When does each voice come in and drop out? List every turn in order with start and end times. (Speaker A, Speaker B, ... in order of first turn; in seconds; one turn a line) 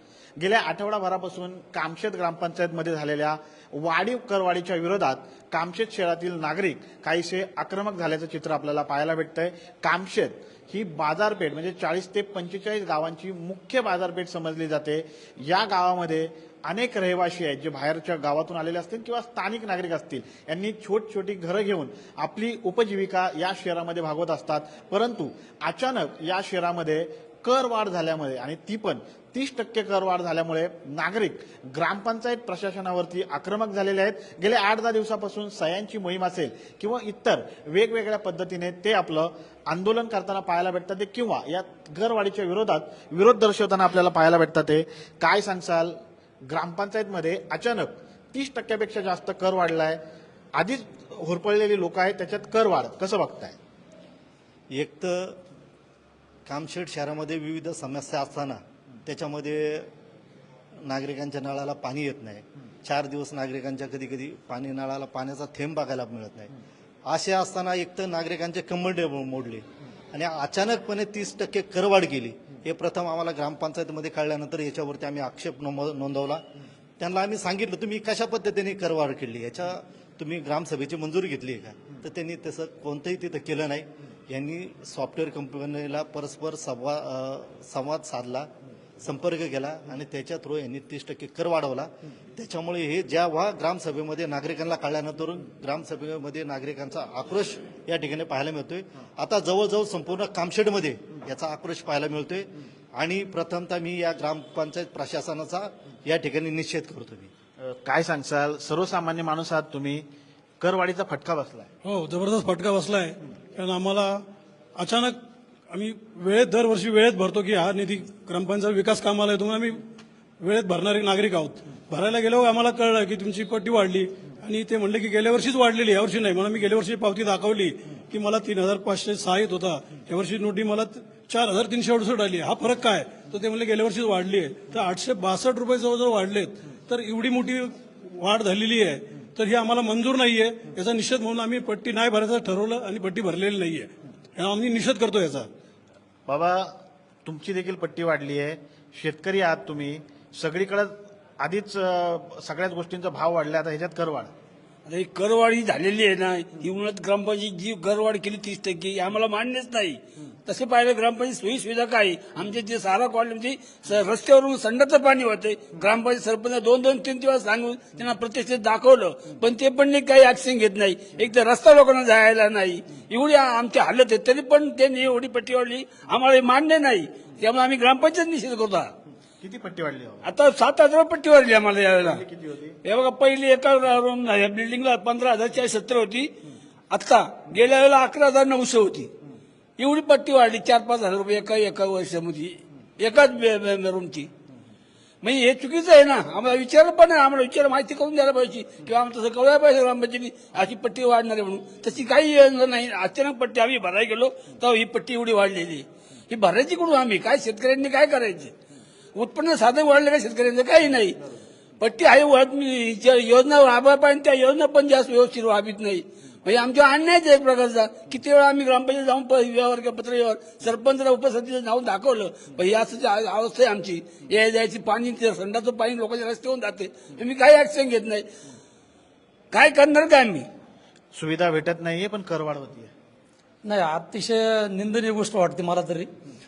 Speaker A: 0.4-46.0
Speaker A: 46.5-50.0
Speaker A: 50.5-53.6
Speaker B: 54.7-55.4
Speaker B: 56.5-59.9
Speaker B: 60.8-66.5
Speaker B: 67.1-76.4
Speaker B: 77.0-88.5
Speaker B: 89.0-107.3
Speaker A: 107.6-110.0
Speaker A: 110.6-111.7
Speaker C: 111.8-114.2
Speaker C: 114.8-115.2
Speaker C: 115.7-119.8
Speaker C: 120.4-145.5
Speaker A: 146.3-146.7
Speaker A: 147.2-154.3
Speaker D: 154.9-178.9
Speaker A: 179.4-180.3
Speaker D: 180.2-182.2
Speaker A: 182.0-182.8
Speaker D: 182.8-186.3
Speaker D: 186.9-189.1
Speaker D: 189.8-194.3
Speaker D: 195.2-208.5
Speaker D: 209.2-211.2
Speaker D: 211.8-228.2
Speaker D: 229.5-230.5
Speaker A: 231.1-232.9
Speaker E: 233.6-236.1